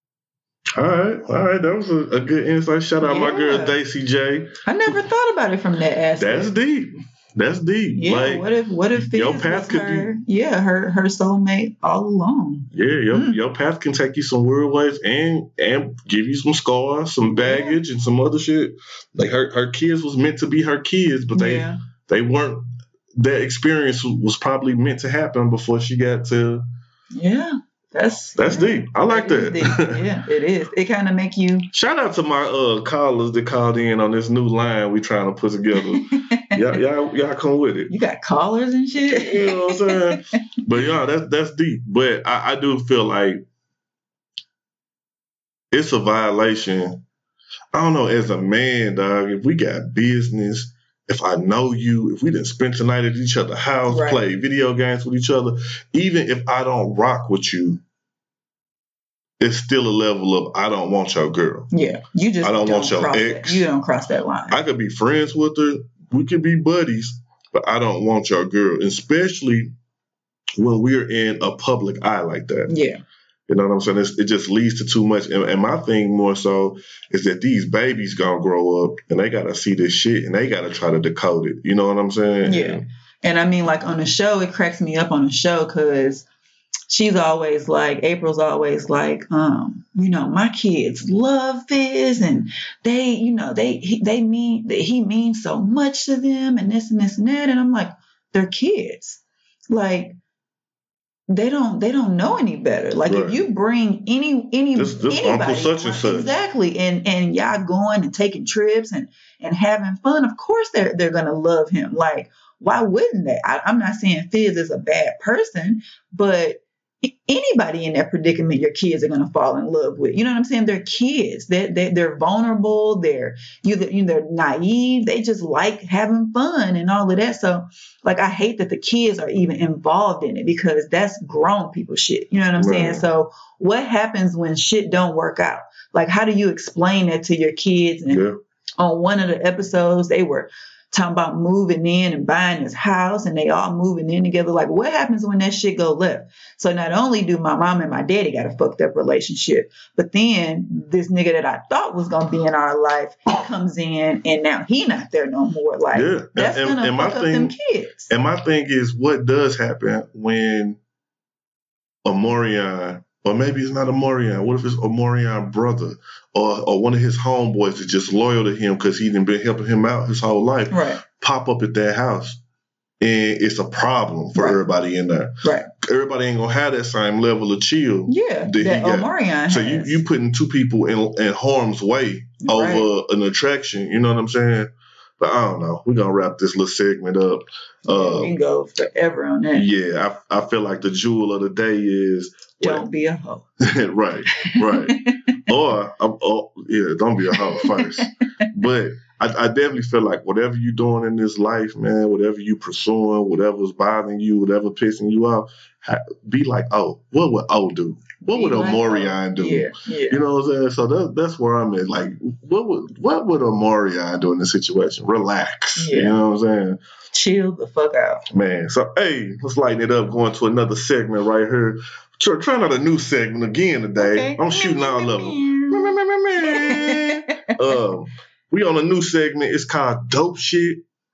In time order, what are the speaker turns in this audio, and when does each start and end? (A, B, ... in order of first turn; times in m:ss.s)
0:00.8-0:04.6 A
0:03.0-0:03.8 B
0:04.7-0:06.5 B
0:06.2-0:10.1 A
0:08.0-0:13.4 B
0:12.7-0:26.6 A
0:17.2-0:17.8 B
0:21.3-0:21.8 B
0:27.1-0:31.7 B
0:28.4-0:30.0 A
0:31.7-0:37.9 A
0:36.0-0:36.4 B
0:37.9-0:40.2 B
0:39.1-0:43.4 A
0:45.7-0:47.0 A
0:47.7-0:57.8 A
0:53.9-0:54.2 B
0:59.4-1:01.7 A
1:01.7-1:04.6 B
1:02.4-1:03.7 A
1:04.5-1:09.7 A
1:10.6-1:12.7 A
1:12.7-1:13.0 B
1:13.5-1:22.8 A
1:22.4-1:26.3 B
1:26.9-1:39.2 B
1:39.7-1:40.2 B
1:41.3-2:18.2 B
1:43.1-1:43.4 A
1:44.8-1:46.3 A
2:12.6-2:13.0 A
2:18.1-2:18.4 A
2:18.8-2:38.1 B
2:35.9-2:37.6 A
2:38.1-2:40.8 A
2:42.0-2:52.4 A
2:50.7-2:51.0 B
2:53.0-3:08.4 A
2:54.4-2:54.6 B
2:55.4-2:55.7 B
2:58.1-3:00.0 B
3:02.4-3:02.9 B
3:07.9-3:09.7 B
3:09.5-3:12.8 A
3:12.6-3:13.5 B
3:13.6-3:36.8 A
3:14.4-3:15.4 B
3:17.4-3:18.1 B
3:28.3-3:30.2 B
3:35.8-3:36.2 B
3:37.1-3:38.2 B
3:38.3-3:50.8 A
3:44.0-3:47.2 B